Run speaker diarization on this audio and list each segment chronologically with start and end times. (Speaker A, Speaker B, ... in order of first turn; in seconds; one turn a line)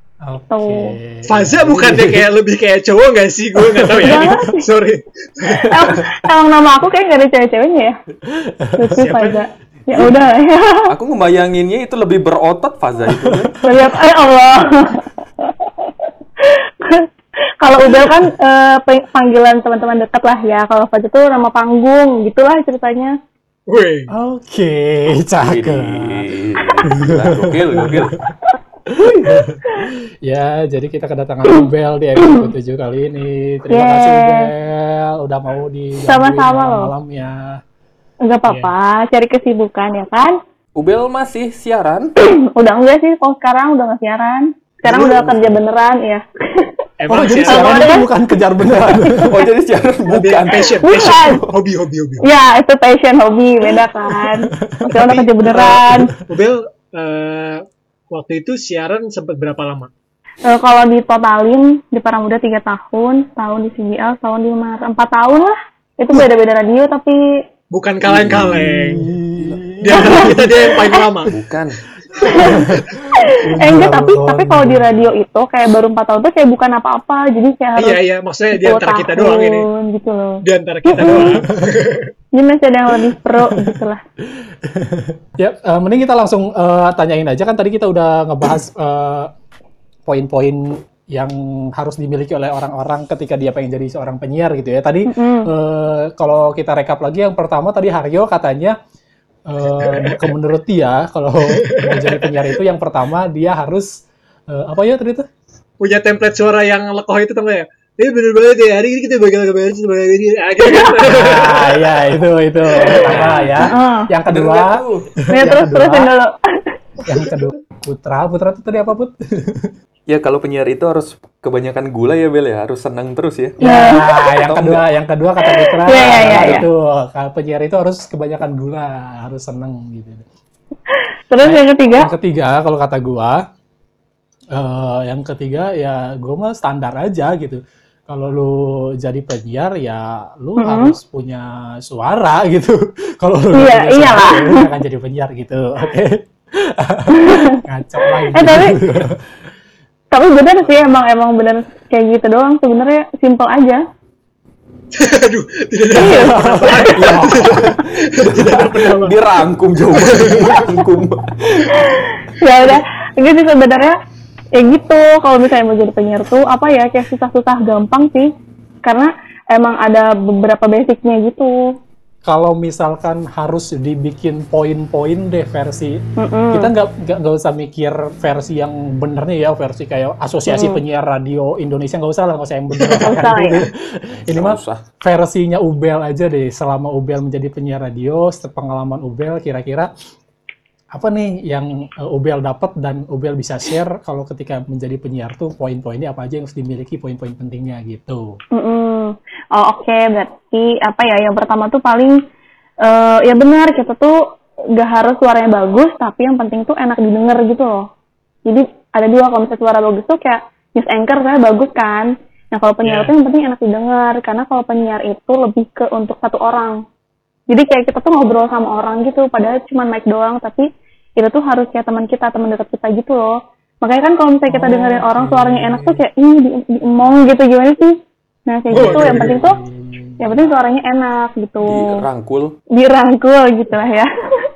Speaker A: 0.2-2.3
Speaker B: 0.5-0.9
Speaker C: 1.2-5.7
Speaker A: 3.5-4.3
Speaker B: 4.0-4.7
Speaker B: 5.6-8.0
Speaker A: 8.3-9.3
Speaker B: 8.7-10.9
Speaker D: 10.9-13.6
Speaker A: 13.2-13.6
Speaker B: 13.6-17.1
Speaker B: 17.6-23.1
Speaker C: 23.7-24.1
Speaker A: 24.1-28.3
Speaker D: 25.4-28.3
Speaker A: 28.9-37.6
Speaker B: 33.7-34.5
Speaker B: 36.0-36.9
Speaker B: 38.2-40.4
Speaker D: 40.8-42.1
Speaker B: 42.2-46.8
Speaker D: 44.9-45.6
Speaker C: 47.0-47.9
Speaker A: 47.1-49.5
Speaker B: 47.5-48.1
Speaker D: 48.8-51.6
Speaker C: 50.1-52.2
Speaker B: 50.8-51.4
Speaker B: 52.2-56.1
Speaker A: 54.6-55.0
Speaker C: 54.9-59.9
Speaker B: 60.4-67.4
Speaker C: 67.7-69.1
Speaker D: 68.0-70.5
Speaker A: 68.8-70.5
Speaker C: 69.8-71.3
Speaker D: 71.3-71.8
Speaker B: 72.2-78.0
Speaker A: 72.3-75.1
Speaker C: 77.8-79.7
Speaker B: 78.5-81.4
Speaker C: 80.4-82.1
Speaker B: 82.3-84.0
Speaker A: 83.3-83.8
Speaker A: 84.6-89.3
Speaker A: 90.0-98.8
Speaker B: 95.0-95.5
Speaker A: 99.5-105.2
Speaker C: 99.8-100.2
Speaker C: 101.4-102.4
Speaker C: 105.8-111.9
Speaker A: 111.0-116.1
Speaker C: 112.8-113.3
Speaker D: 113.0-113.7
Speaker B: 113.6-114.1
Speaker D: 114.3-115.1
Speaker B: 115.3-116.7
Speaker A: 117.0-119.7
Speaker D: 120.1-123.6
Speaker A: 123.6-130.2
Speaker B: 123.6-124.2
Speaker D: 124.3-124.8
Speaker B: 125.4-126.7
Speaker D: 125.9-126.7
Speaker B: 131.3-132.1
Speaker A: 131.4-133.4
Speaker A: 134.5-149.2
Speaker B: 140.6-141.0
Speaker B: 143.5-144.7
Speaker B: 147.1-148.8
Speaker B: 150.1-153.8
Speaker C: 154.9-159.2
Speaker B: 155.9-156.9
Speaker A: 156.0-157.5
Speaker D: 156.9-161.9
Speaker C: 159.9-160.6
Speaker B: 161.7-164.0
Speaker B: 164.5-168.3
Speaker B: 168.8-171.7
Speaker A: 172.2-189.9
Speaker B: 176.2-176.7
Speaker B: 180.5-180.8
Speaker C: 182.8-183.2
Speaker B: 183.0-183.7
Speaker D: 184.3-184.8
Speaker A: 190.9-198.4
Speaker B: 198.5-202.2
Speaker B: 202.8-207.9
Speaker B: 208.4-216.8
Speaker C: 212.8-213.1
Speaker B: 217.5-229.6
Speaker A: 224.5-226.0
Speaker C: 228.7-229.4
Speaker A: 228.7-230.4
Speaker B: 230.2-232.0
Speaker D: 231.6-232.6
Speaker B: 232.7-234.1